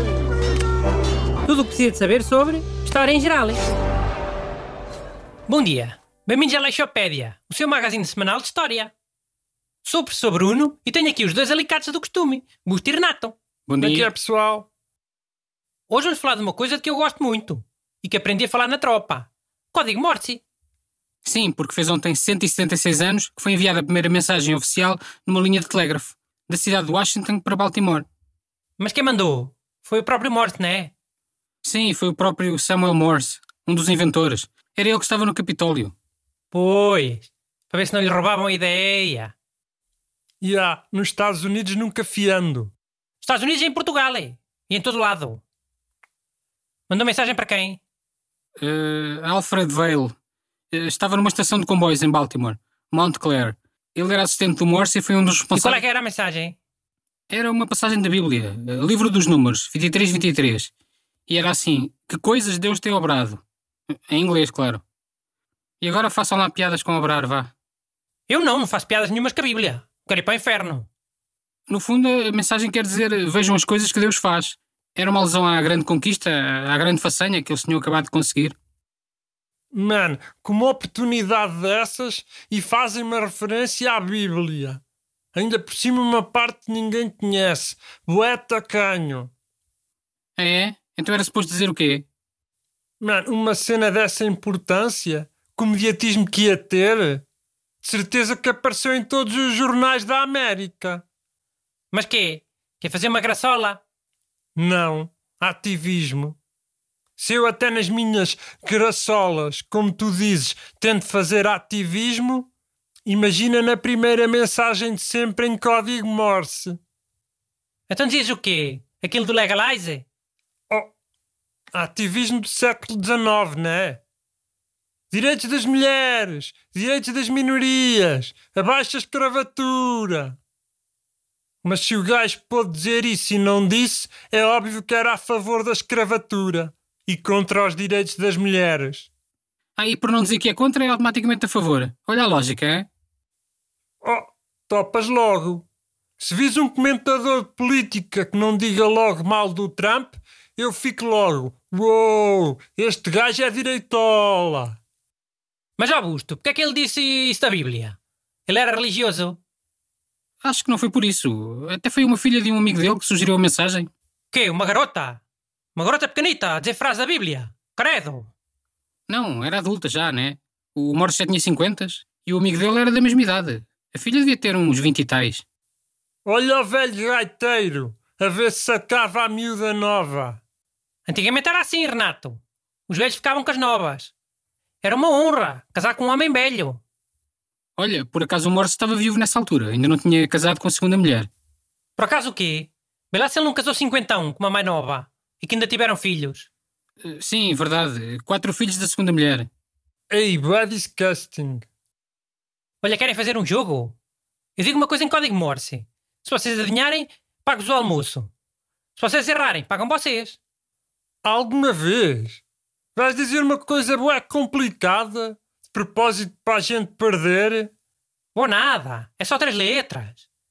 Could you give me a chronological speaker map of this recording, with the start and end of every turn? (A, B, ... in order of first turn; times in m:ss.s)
0:01.4-0:03.6 A
0:05.5-0:08.9 A
0:09.8-0:13.4 A
0:13.7-0:14.1 B
0:13.8-0:14.7 C
0:15.9-0:20.4 A
0:21.2-0:28.0 B
0:28.8-0:30.9 A
0:31.6-0:35.9 B
0:36.5-0:39.3 A
0:40.4-0:42.7 C
0:43.2-0:45.4 A
0:46.9-0:47.8 A
0:48.6-0:50.1 B
0:50.7-0:55.8 B
0:55.5-0:56.6 A
0:57.3-1:00.7 B
1:01.3-1:03.4 B
1:03.9-1:04.8 B
1:05.8-1:07.5 B
1:08.3-1:10.9 A
1:11.7-1:18.5 B
1:19.7-1:24.8 C
1:25.3-1:29.3 C
1:30.4-1:32.0 B
1:33.0-1:37.2 C
1:37.8-1:41.0 C
1:41.9-1:43.8 A
1:44.6-1:46.4 C
1:47.2-1:52.5 C
1:53.0-1:56.8 C
1:57.9-2:00.0 A
2:01.7-2:04.0 C
2:05.1-2:10.4 C
2:11.6-2:19.1 C
2:19.8-2:22.9 B
2:24.0-2:25.6 C
2:26.2-2:34.8 C
2:35.8-2:39.4 A
2:40.4-2:43.9 B
2:44.3-2:45.2 A
2:45.7-2:48.3 A
2:49.1-2:55.4 B
2:56.2-3:00.4 C
3:01.0-3:04.1 A
3:04.8-3:06.8 A
3:07.8-3:11.3 B
3:12.0-3:16.5 A
3:17.0-3:19.5 B
3:20.1-3:21.6 C
3:22.8-3:24.0 A
3:24.6-3:28.3 A
3:29.0-3:30.4 A
3:31.2-3:32.4 C
3:32.9-3:37.7 C
3:38.3-3:40.2 A